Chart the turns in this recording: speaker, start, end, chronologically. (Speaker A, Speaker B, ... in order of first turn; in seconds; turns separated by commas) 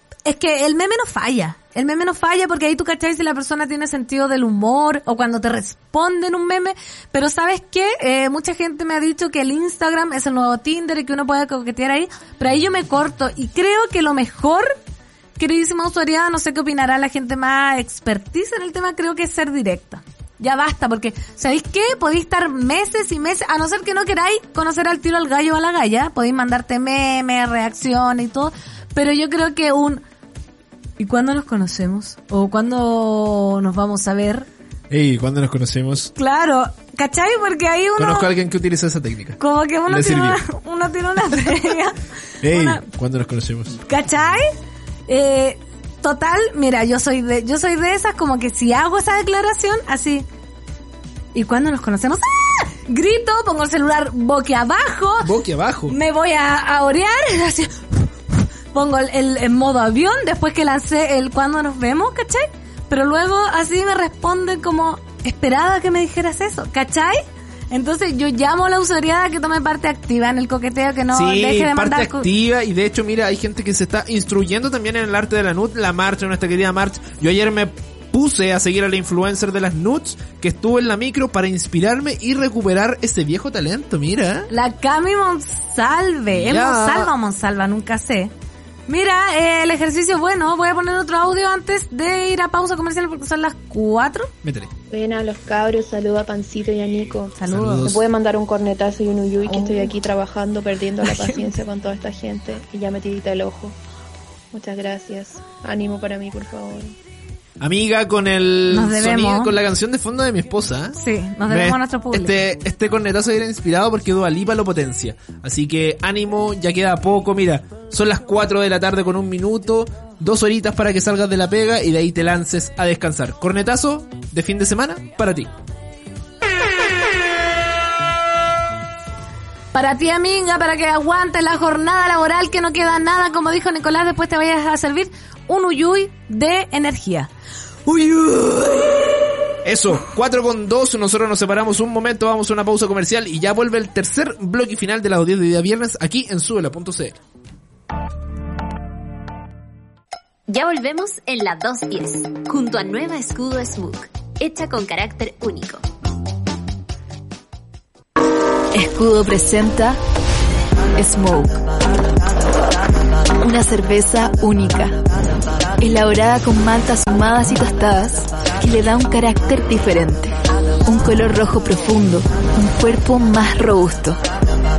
Speaker A: 0.2-14.8, Speaker A: 15.4-30.0, Speaker A: 31.0-34.5, Speaker B: 34.9-36.1, Speaker A: 36.1-38.3, Speaker B: 38.0-40.4, Speaker A: 39.4-42.8, Speaker B: 42.4-43.8, Speaker A: 43.8-44.5, Speaker A: 45.1-50.2, Speaker A: 51.3-55.3, Speaker B: 55.2-56.0, Speaker A: 55.9-58.1, Speaker A: 58.7-72.2, Speaker B: 71.1-84.5, Speaker A: 84.5-88.3, Speaker B: 86.3-87.1, Speaker A: 88.9-94.3, Speaker B: 94.4-94.7, Speaker C: 94.9-103.7, Speaker A: 97.3-98.0, Speaker B: 97.5-98.0, Speaker A: 99.5-99.9, Speaker A: 101.0-101.6, Speaker C: 104.5-106.9, Speaker B: 107.6-125.5, Speaker A: 108.7-109.5, Speaker A: 110.9-112.3, Speaker A: 129.7-137.3, Speaker A: 137.9-139.0, Speaker B: 139.6-147.2, Speaker D: 150.5-155.8, Speaker E: 158.7-160.0, Speaker E: 161.0-161.6, Speaker E: 163.4-165.0, Speaker E: 165.8-170.3, Speaker E: 170.8-174.2